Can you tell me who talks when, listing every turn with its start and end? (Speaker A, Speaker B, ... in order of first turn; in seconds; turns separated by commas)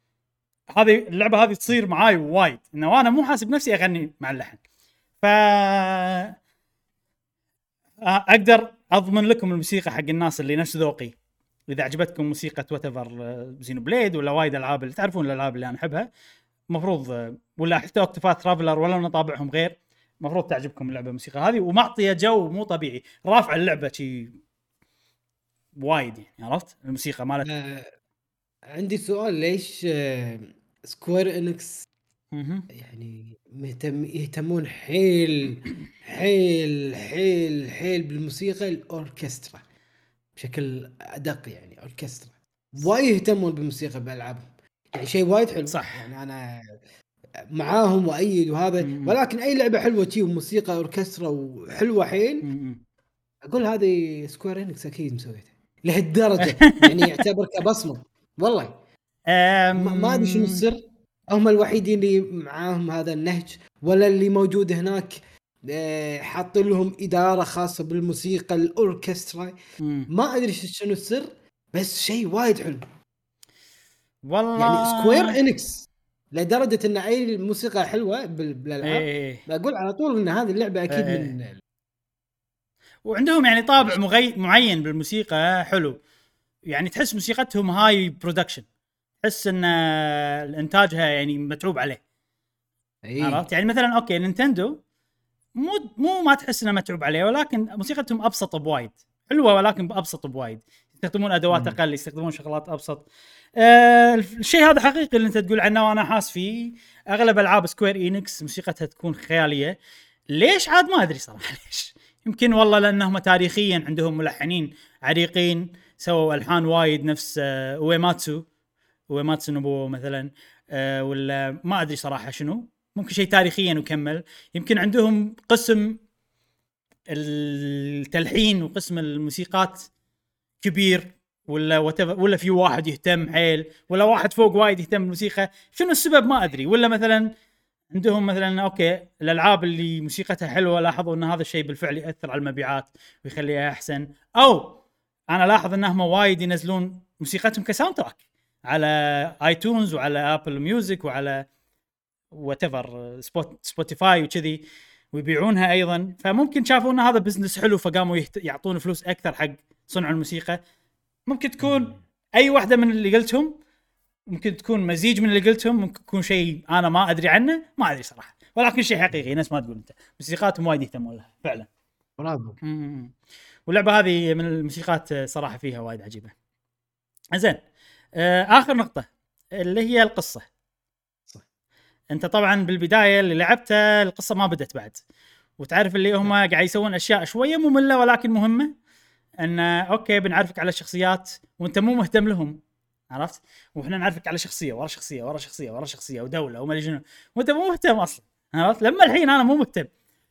Speaker A: 0.7-4.6, Speaker A: 5.2-6.3, Speaker A: 8.0-11.2, Speaker A: 11.7-16.1, Speaker A: 16.7-24.4, Speaker A: 25.8-27.5, Speaker B: 27.4-27.9, Speaker B: 28.7-31.9, Speaker A: 32.3-32.7, Speaker B: 32.7-39.6, Speaker B: 40.4-46.8, Speaker A: 45.7-46.1, Speaker B: 47.5-52.5, Speaker A: 48.8-49.2, Speaker A: 52.4-52.8, Speaker B: 53.4-58.8, Speaker A: 56.4-57.2, Speaker A: 59.3-60.6, Speaker B: 59.7-69.6, Speaker A: 69.8-70.1, Speaker B: 70.1-72.8, Speaker A: 74.3-75.4, Speaker B: 74.6-81.6, Speaker A: 78.8-79.4, Speaker A: 80.9-81.3, Speaker A: 83.0-86.0, Speaker A: 86.7-88.7, Speaker A: 89.2-92.0, Speaker B: 93.0-93.4, Speaker A: 93.2-94.8, Speaker A: 95.6-103.1, Speaker B: 101.5-101.8, Speaker A: 103.6-109.8, Speaker A: 110.3-118.5, Speaker A: 119.1-126.0, Speaker A: 127.1-129.9, Speaker A: 130.6-137.3, Speaker A: 137.9-144.8, Speaker A: 145.3-151.4, Speaker A: 152.3-160.6, Speaker A: 161.3-163.5, Speaker B: 161.6-161.9, Speaker A: 164.3-171.7, Speaker B: 172.2-172.6, Speaker A: 172.6-173.1, Speaker A: 173.7-176.3, Speaker A: 177.3-177.6, Speaker A: 178.2-180.5, Speaker A: 182.1-185.0, Speaker A: 185.6-188.7, Speaker A: 189.4-192.6, Speaker A: 193.1-199.9